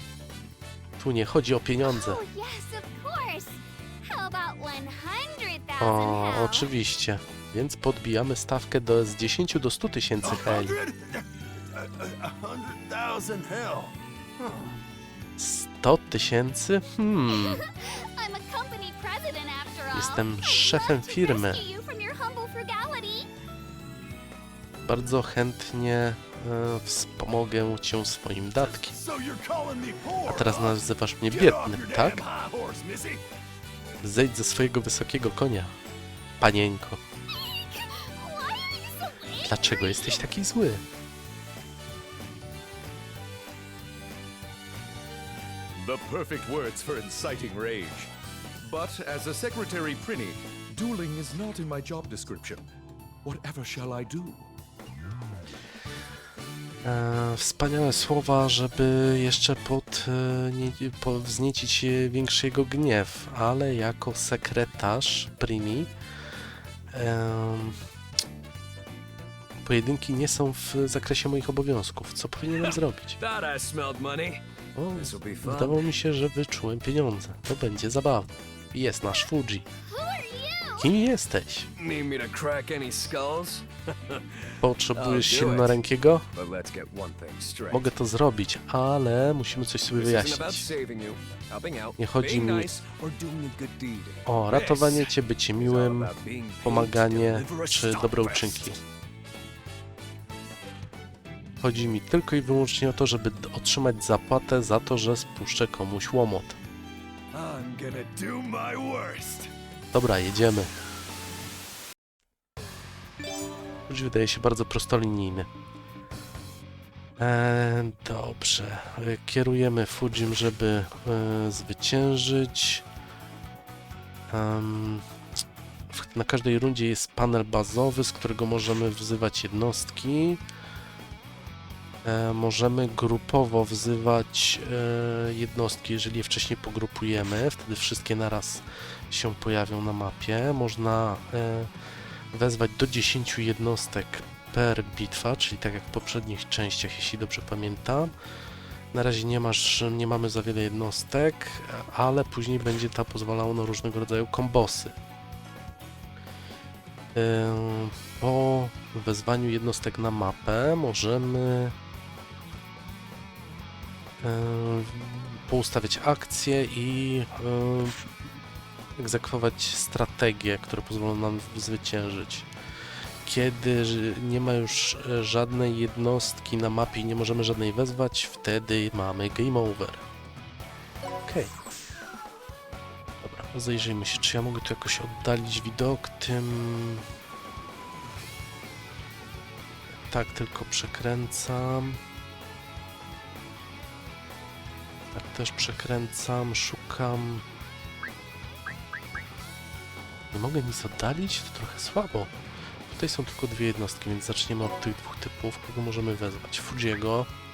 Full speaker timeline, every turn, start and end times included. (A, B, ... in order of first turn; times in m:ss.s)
0:01.0-0:02.2 A
0:01.8-0:06.7 B
0:05.8-0:10.7 A
0:10.2-0:14.5 C
0:15.4-0:17.6 A
0:17.3-0:23.3 B
0:19.9-0:21.6 A
0:24.8-0:28.9 A
0:28.6-0:33.2 C
0:30.2-0:32.2 A
0:34.0-0:35.7 A
0:36.4-0:37.0 A
0:37.3-0:40.3 B
0:39.4-0:40.8 A
0:45.8-0:52.6 D
0:53.2-0:54.5 D
0:56.8-1:05.9 A
1:06.9-1:07.8 A
1:09.6-1:13.2 A
1:12.6-1:14.4 E
1:14.7-1:19.6 A
1:15.0-1:15.9 E
1:19.8-1:20.9 B
1:20.8-1:21.7 A
1:21.8-1:27.9 E
1:24.6-1:26.2 A
1:27.7-1:30.7 A
1:29.9-1:34.4 E
1:32.0-1:32.7 A
1:34.2-1:38.8 A
1:34.5-1:34.9 D
1:35.5-1:38.5 E
1:37.7-1:38.2 D
1:41.6-1:46.6 A
1:47.3-1:49.5 D
1:49.9-1:50.7 A
1:53.9-1:55.5 A
1:57.2-2:02.8 A
2:04.3-2:05.0 A
2:05.9-2:10.4 A
2:12.0-2:21.7 A
2:22.3-2:28.1 A
2:28.9-2:34.9 A
2:37.1-2:41.7 A
2:44.2-2:48.0 A
2:49.0-2:52.5 A
2:53.2-3:00.0 A
3:01.2-3:01.5 A
3:03.2-3:07.0 A
3:09.9-3:12.0 A
3:15.1-3:17.4 A
3:20.3-3:22.3 A
3:22.9-3:27.3 A